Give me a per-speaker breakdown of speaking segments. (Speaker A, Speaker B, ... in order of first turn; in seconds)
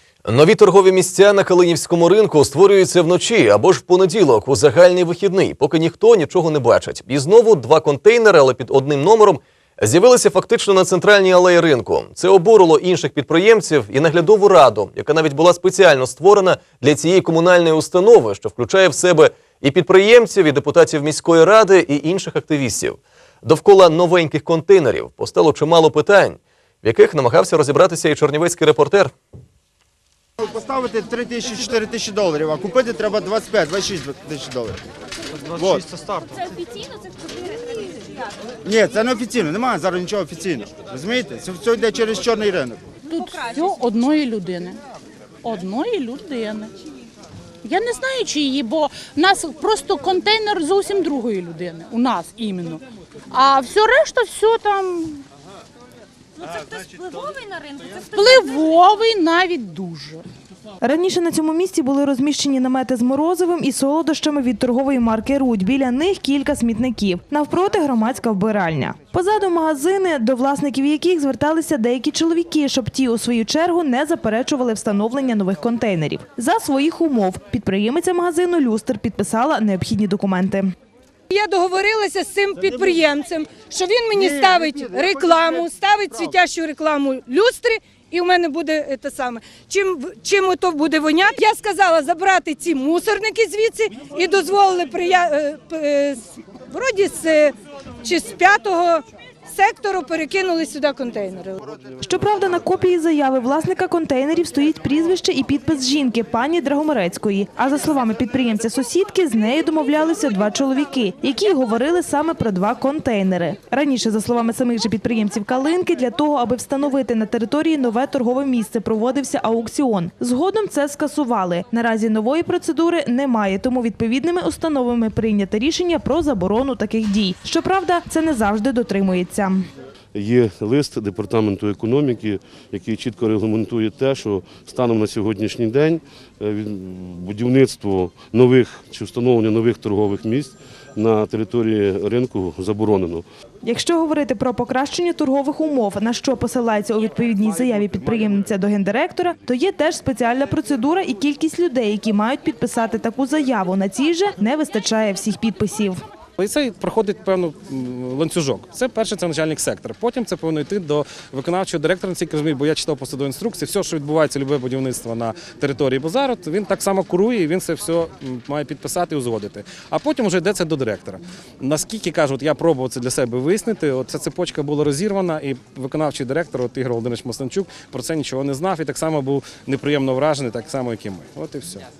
Speaker A: 0.2-29.1
Speaker B: 30.6-34.7, 35.6-35.8, 38.7-42.7
Speaker C: 43.1-44.8, 45.4-46.7, 47.6-52.8, 53.3-55.2, 58.1-60.2
Speaker D: 60.8-80.7, 102.0-129.6, 143.6-156.0
Speaker E: 81.3-101.6
Speaker F: 130.1-143.2
Speaker G: 156.4-181.8